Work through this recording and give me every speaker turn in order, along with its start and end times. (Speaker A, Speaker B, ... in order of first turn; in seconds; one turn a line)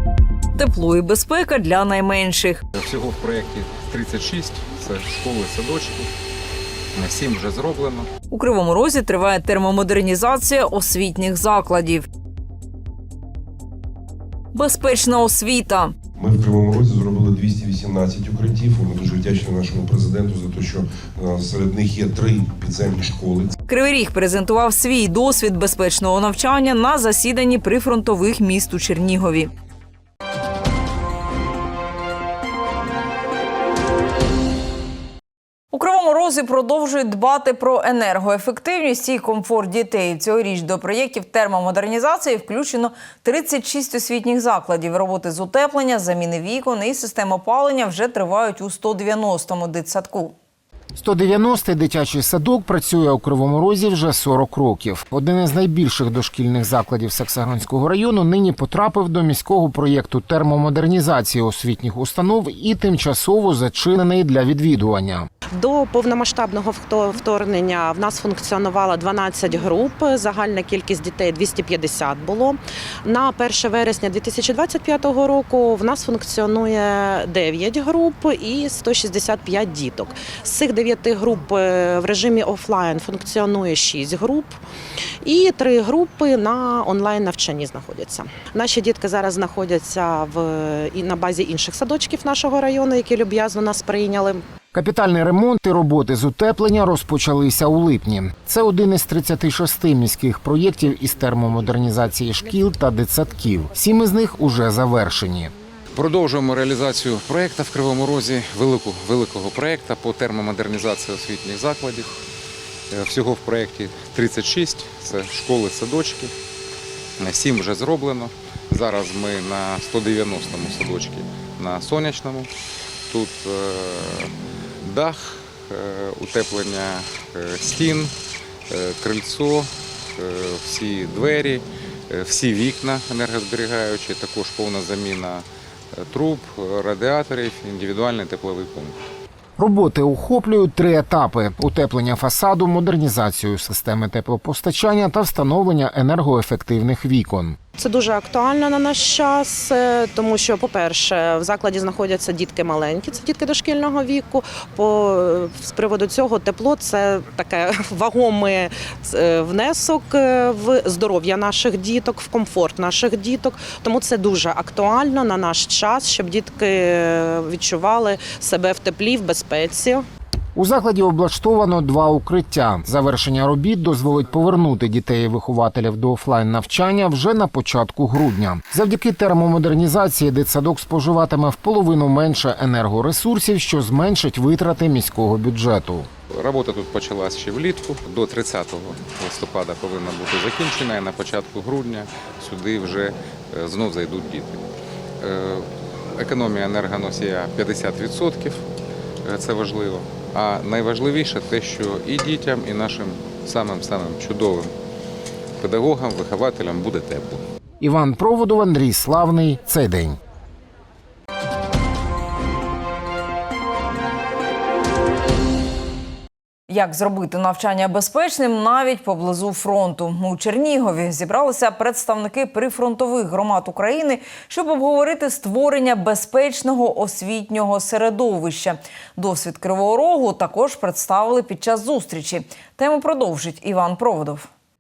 Speaker A: 0.6-2.6
Speaker B: 2.7-6.1
Speaker B: 7.0-8.1
Speaker A: 8.3-12.1
Speaker A: 14.5-15.9
Speaker C: 16.2-23.6
Speaker A: 23.7-29.5
Speaker A: 35.7-50.4
Speaker D: 51.0-65.3
Speaker E: 65.5-84.6
Speaker E: 85.2-94.4
Speaker D: 94.7-105.5
Speaker B: 105.9-112.2
Speaker B: 112.9-116.3
Speaker B: 117.2-122.5
Speaker B: 123.1-128.2
Speaker B: 128.7-139.0
Speaker D: 139.6-147.6
Speaker E: 147.8-170.1
Speaker D: 170.6-186.1
Speaker B: 186.3-194.7
Speaker B: 195.2-198.7
Speaker B: 199.2-204.7
Speaker B: 205.6-207.5
Speaker D: 207.8-210.2
Speaker A: 216.7-234.5